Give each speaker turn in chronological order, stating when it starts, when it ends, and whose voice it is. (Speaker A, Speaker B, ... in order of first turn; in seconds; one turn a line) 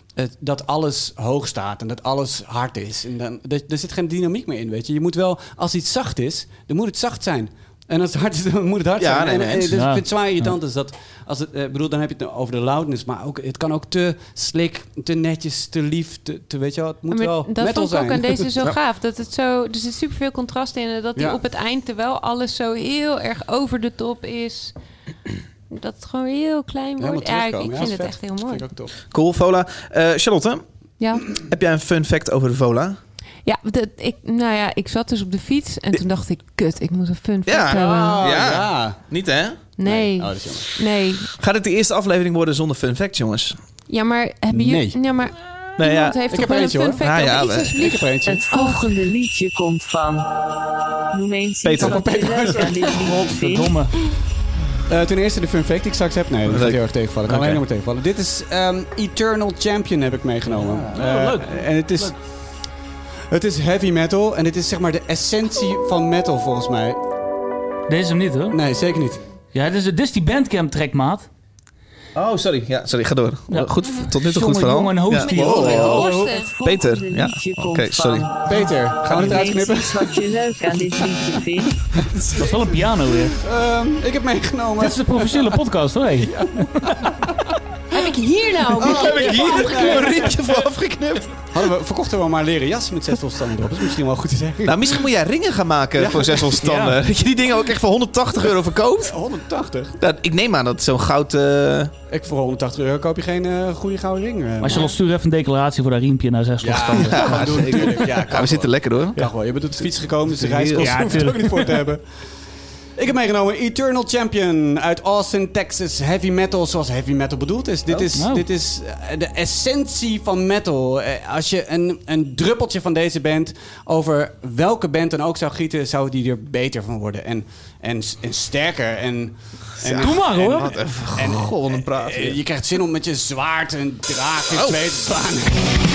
Speaker A: 0.1-18.4
Speaker B: 9.0-9.8
Speaker C: 9.7-10.5
Speaker D: 17.1-24.7
Speaker D: 25.7-28.7
Speaker A: 27.0-28.9
Speaker B: 29.1-30.6
Speaker D: 31.0-31.3
Speaker B: 31.4-33.0
Speaker D: 33.4-38.2
Speaker B: 37.4-39.6
Speaker A: 37.7-39.0
Speaker D: 39.8-41.3
Speaker A: 39.8-40.7
Speaker B: 41.4-43.6
Speaker D: 43.9-48.9
Speaker A: 44.5-45.0
Speaker B: 45.8-46.2
Speaker A: 46.3-47.0
Speaker B: 47.0-48.1
Speaker A: 47.8-48.5
Speaker E: 48.2-50.3
Speaker E: 51.1-53.7
Speaker B: 51.6-52.5
Speaker A: 51.8-53.4
Speaker C: 53.2-53.9
Speaker A: 54.9-62.2
Speaker B: 56.5-57.6
Speaker C: 60.6-62.1
Speaker A: 63.3-67.0
Speaker C: 67.9-68.6
Speaker A: 68.5-69.2
Speaker C: 69.5-71.3
Speaker B: 72.1-78.3
Speaker C: 73.5-76.3
Speaker D: 73.8-74.1
Speaker D: 75.1-76.5
Speaker A: 75.8-76.2
Speaker E: 75.8-81.9
Speaker A: 78.5-80.3
Speaker C: 82.3-83.4
Speaker A: 83.4-85.5
Speaker C: 84.8-87.0
Speaker A: 86.2-87.3
Speaker D: 87.9-90.3
Speaker A: 88.8-90.4
Speaker B: 88.8-91.5
Speaker A: 91.5-95.0
Speaker B: 94.6-99.2
Speaker A: 96.0-96.5
Speaker C: 96.6-97.0
Speaker A: 99.0-100.0
Speaker B: 100.0-101.9
Speaker A: 102.1-104.9
Speaker C: 104.6-107.8
Speaker A: 106.6-112.0
Speaker B: 107.0-111.3
Speaker C: 110.8-111.8
Speaker A: 113.0-135.7
Speaker C: 118.1-118.5
Speaker B: 129.8-132.4
Speaker C: 130.0-130.7
Speaker B: 134.5-134.8